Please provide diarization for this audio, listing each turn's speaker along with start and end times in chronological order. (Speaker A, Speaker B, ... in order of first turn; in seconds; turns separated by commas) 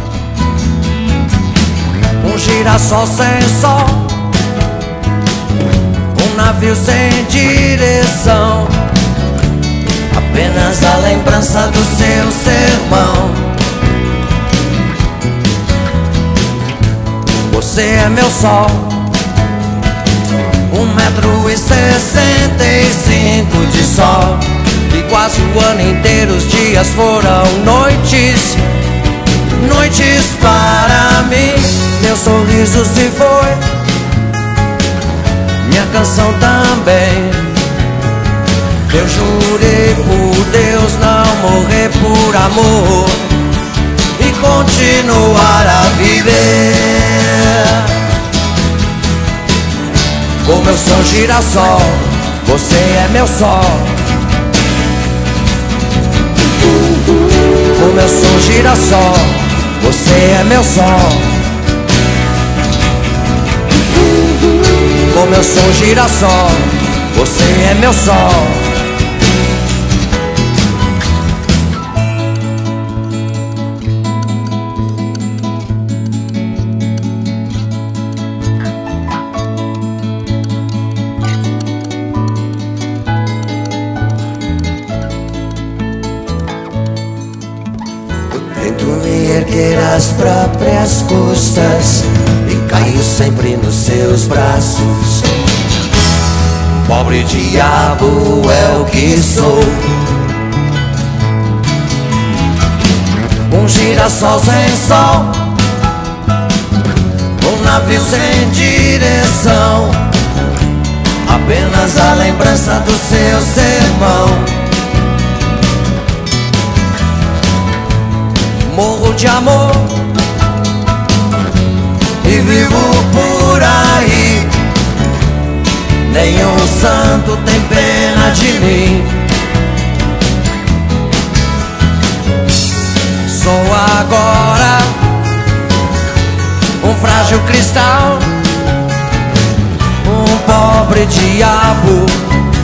Speaker A: 2.2-4.2, Speaker A: 6.1-8.8, Speaker A: 10.1-13.5, Speaker A: 17.5-19.1, Speaker A: 20.7-28.6, Speaker A: 29.6-33.6, Speaker A: 35.6-37.5, Speaker A: 38.9-43.2, Speaker A: 44.2-47.9, Speaker A: 50.4-54.0, Speaker A: 57.7-61.4, Speaker A: 65.1-68.7, Speaker A: 88.3-95.3, Speaker A: 96.8-100.0, Speaker A: 103.5-105.5, Speaker A: 107.4-110.1, Speaker A: 111.2-114.5, Speaker A: 118.6-120.0, Speaker A: 122.2-124.5, Speaker A: 126.0-129.2, Speaker A: 133.3-135.0, Speaker A: 136.8-138.3, Speaker A: 140.0-142.3